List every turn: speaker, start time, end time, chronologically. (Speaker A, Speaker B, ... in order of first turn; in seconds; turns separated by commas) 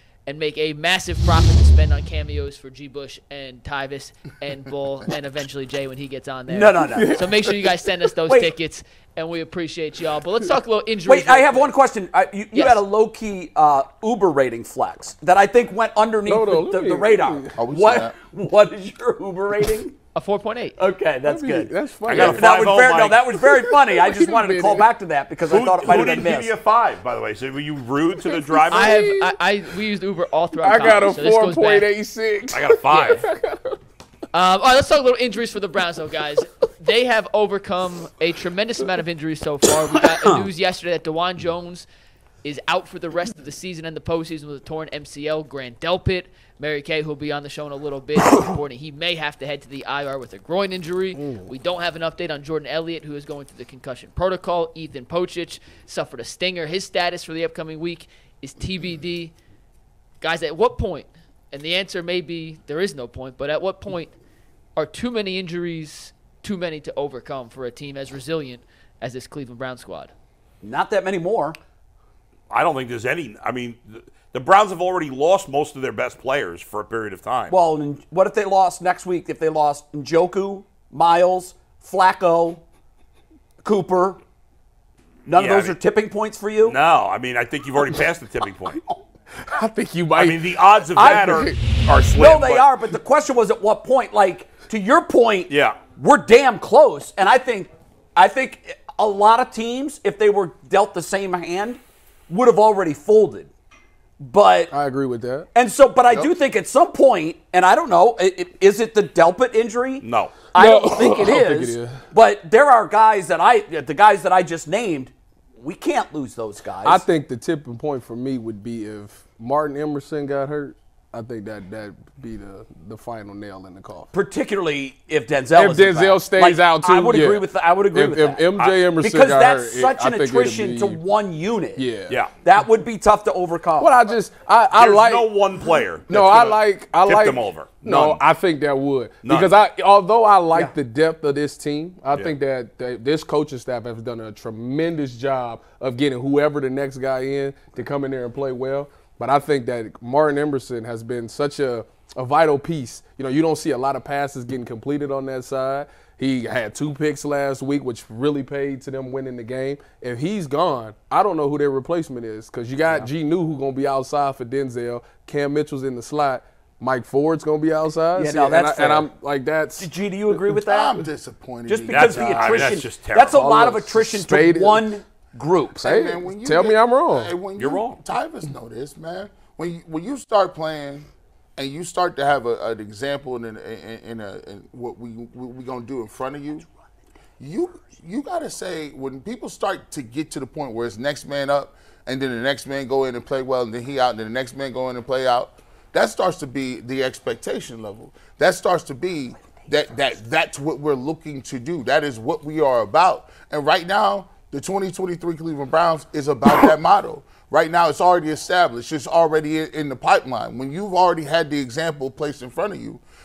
Speaker A: 0.2-11.7, Speaker B: 6.5-7.3, Speaker C: 6.9-7.9, Speaker B: 11.1-19.9, Speaker A: 12.5-12.8, Speaker C: 16.2-17.6, Speaker D: 17.6-18.1, Speaker A: 20.1-20.8, Speaker B: 20.8-26.5, Speaker C: 21.2-22.5, Speaker E: 22.0-23.3, Speaker C: 23.5-24.9, Speaker E: 25.5-29.0, Speaker C: 28.2-29.3, Speaker A: 28.7-31.9, Speaker C: 30.6-33.8, Speaker E: 32.5-33.2, Speaker A: 34.3-41.9, Speaker B: 40.0-40.4, Speaker A: 42.4-59.3, Speaker C: 51.2-51.5, Speaker A: 60.2-64.1, Speaker A: 64.8-70.1, Speaker B: 70.6-71.6, Speaker E: 72.5-77.6, Speaker B: 77.5-82.6, Speaker B: 83.6-84.2, Speaker B: 85.2-86.8, Speaker E: 85.3-85.8, Speaker E: 86.6-88.8, Speaker C: 89.4-91.7, Speaker E: 90.2-92.8, Speaker B: 90.9-91.5, Speaker B: 92.0-103.5, Speaker E: 95.5-95.8, Speaker B: 104.2-104.7, Speaker C: 104.7-105.5, Speaker B: 105.5-117.0, Speaker E: 110.0-110.5, Speaker C: 110.5-112.0, Speaker C: 116.8-124.1, Speaker B: 124.1-134.0, Speaker C: 125.5-131.0, Speaker C: 131.8-132.2, Speaker E: 132.1-132.4, Speaker C: 133.8-135.4, Speaker E: 134.7-138.2, Speaker C: 136.1-170.4, Speaker E: 139.2-139.5, Speaker B: 168.2-169.1, Speaker B: 169.8-171.0, Speaker D: 170.6-172.8, Speaker B: 171.7-175.8, Speaker E: 171.9-173.4, Speaker C: 173.3-174.9, Speaker C: 175.8-177.3, Speaker D: 175.8-186.7, Speaker E: 177.5-178.0, Speaker D: 187.4-213.0